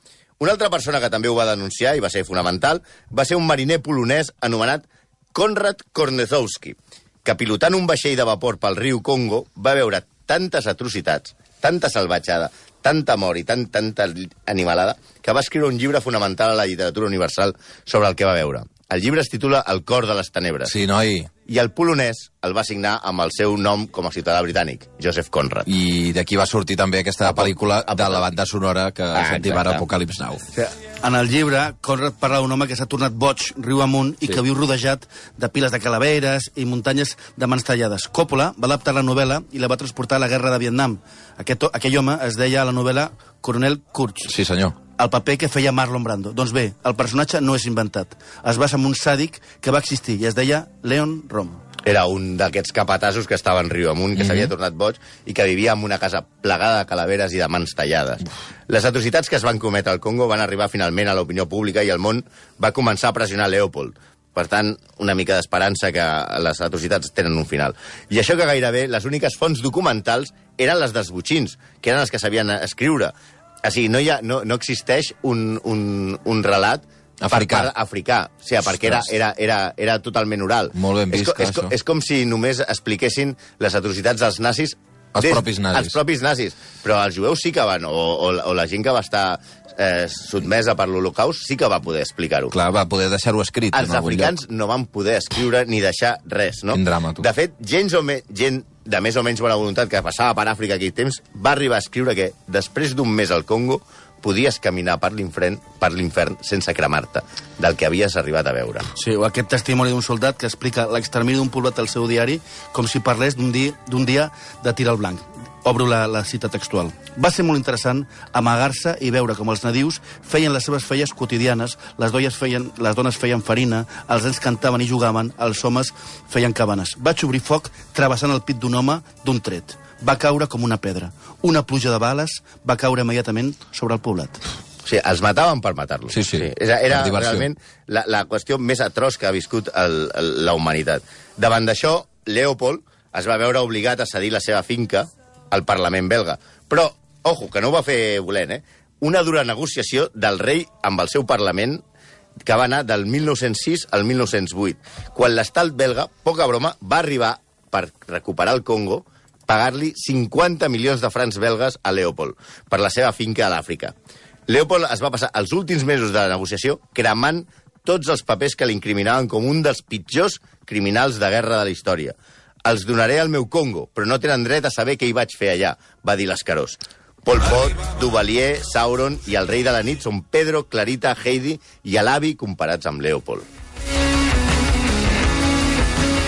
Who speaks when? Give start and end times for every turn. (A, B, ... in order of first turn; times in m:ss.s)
0:00.4-0:20.7 A
0:20.7-0:21.3 B
0:21.4-0:25.7 A
0:25.6-0:30.4 B
0:27.2-0:28.2 A
0:29.1-0:29.8 A
0:30.5-0:44.3 C
0:44.3-0:44.7 B
0:45.0-0:51.6 C
0:51.8-1:32.5 A
0:54.2-0:54.5 B
1:17.2-1:17.7 B
1:20.7-1:21.7 B
1:25.1-1:26.0 B
1:32.5-1:34.3 B
1:33.7-1:48.9 A
1:36.7-1:37.2 B
1:48.9-2:14.4 C
2:14.8-2:31.8 A
2:16.1-2:17.4 B
2:32.4-2:43.9 A
2:44.5-3:03.5 A